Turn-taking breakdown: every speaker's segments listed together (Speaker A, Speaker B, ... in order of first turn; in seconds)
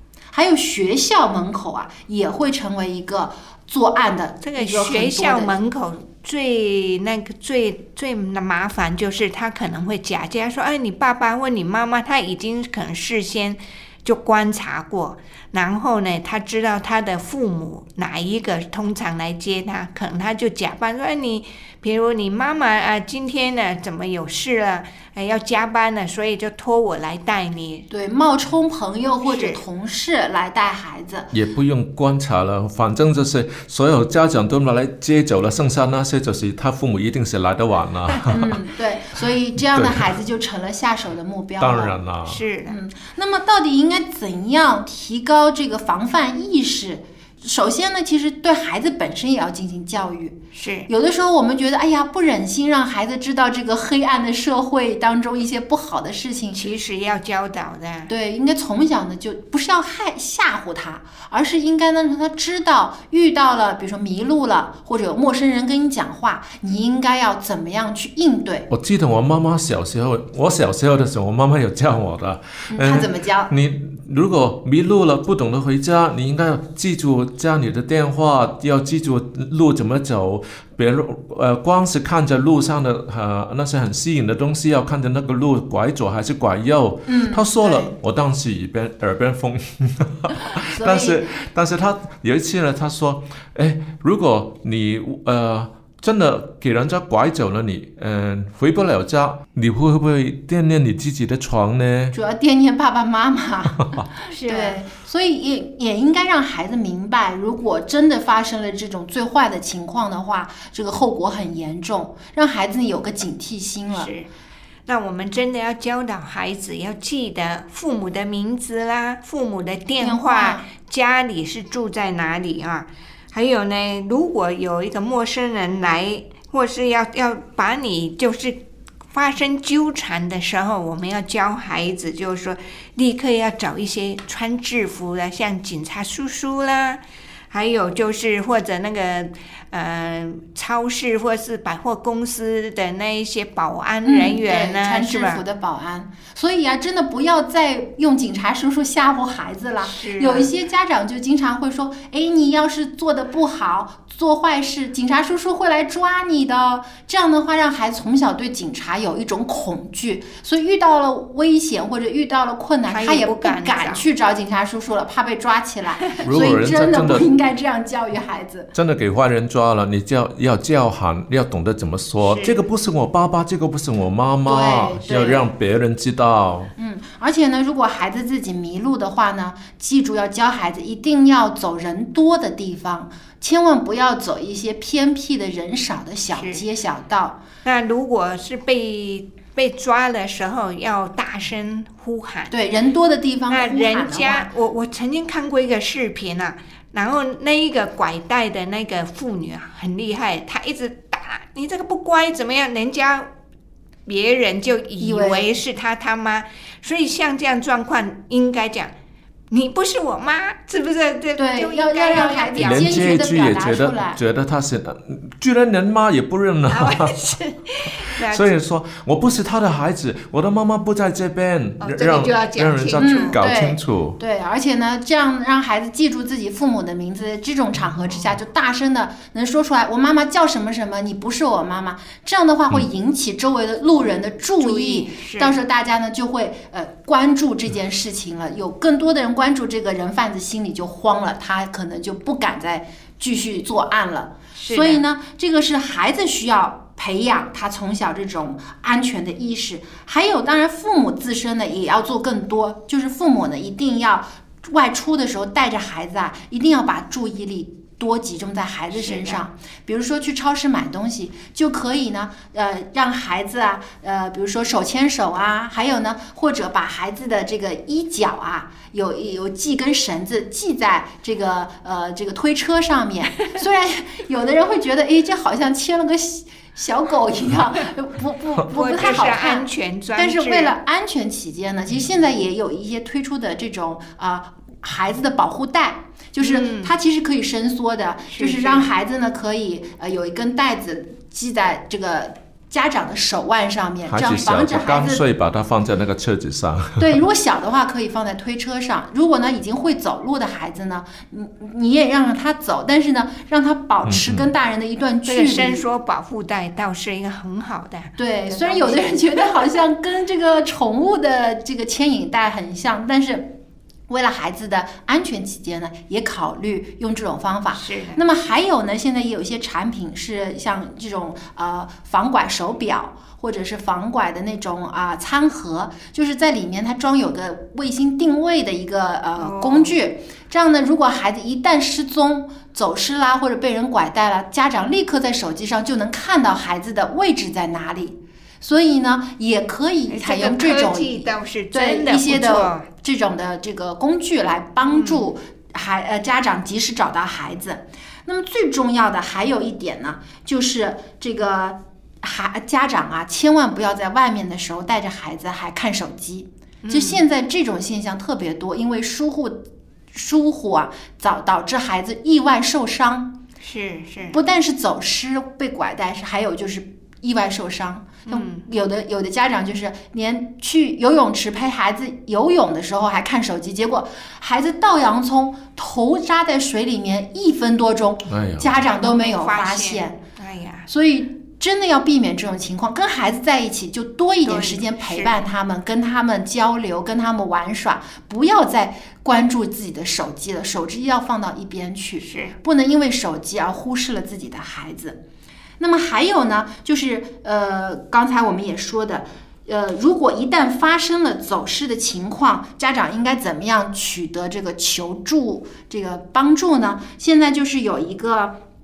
Speaker A: 0.3-5.5, 27.9-31.3, 38.3-42.0, 42.7-50.4, 50.9-56.6, 58.1-68.7, 72.7-73.5, 87.1-87.9, 90.6-91.3, 102.1-103.8, 104.5-114.1, 120.0-120.7, 144.0-168.7, 174.4-175.5, 176.8-187.4, 192.5-194.5, 205.0-205.5, 211.4-214.2, 223.0-295.2, 297.0-305.8, 308.2-313.5, 314.1-359.6, 360.1-363.3, 364.3-380.1, 380.9-395.2, 395.8-408.6
Speaker B: 4.4-27.9, 29.2-29.6, 42.2-42.8, 50.5-50.9, 56.5-58.1, 104.3-104.8, 113.9-114.3, 114.9-145.4, 149.8-150.5, 162.9-164.0, 172.2-172.6, 186.3-186.6, 187.6-192.5, 193.5-203.3, 204.1-208.9, 209.5-213.4, 216.7-218.5, 221.8-223.3, 234.6-235.6, 244.5-245.0, 258.9-259.4, 278.7-280.7, 286.4-286.9, 288.3-288.9, 305.2-309.7, 317.7-318.2, 329.4-329.9, 340.1-342.9, 344.9-345.3, 356.8-357.2, 363.6-364.4, 368.3-368.6, 378.8-380.9, 384.4-385.3, 392.2-392.6
Speaker C: 31.3-38.5, 39.6-40.1, 41.6-42.4, 68.7-102.1, 103.8-104.1, 166.2-167.3, 168.7-176.7, 212.6-217.4, 218.2-224.2, 294.0-297.2, 304.1-304.5, 378.3-378.8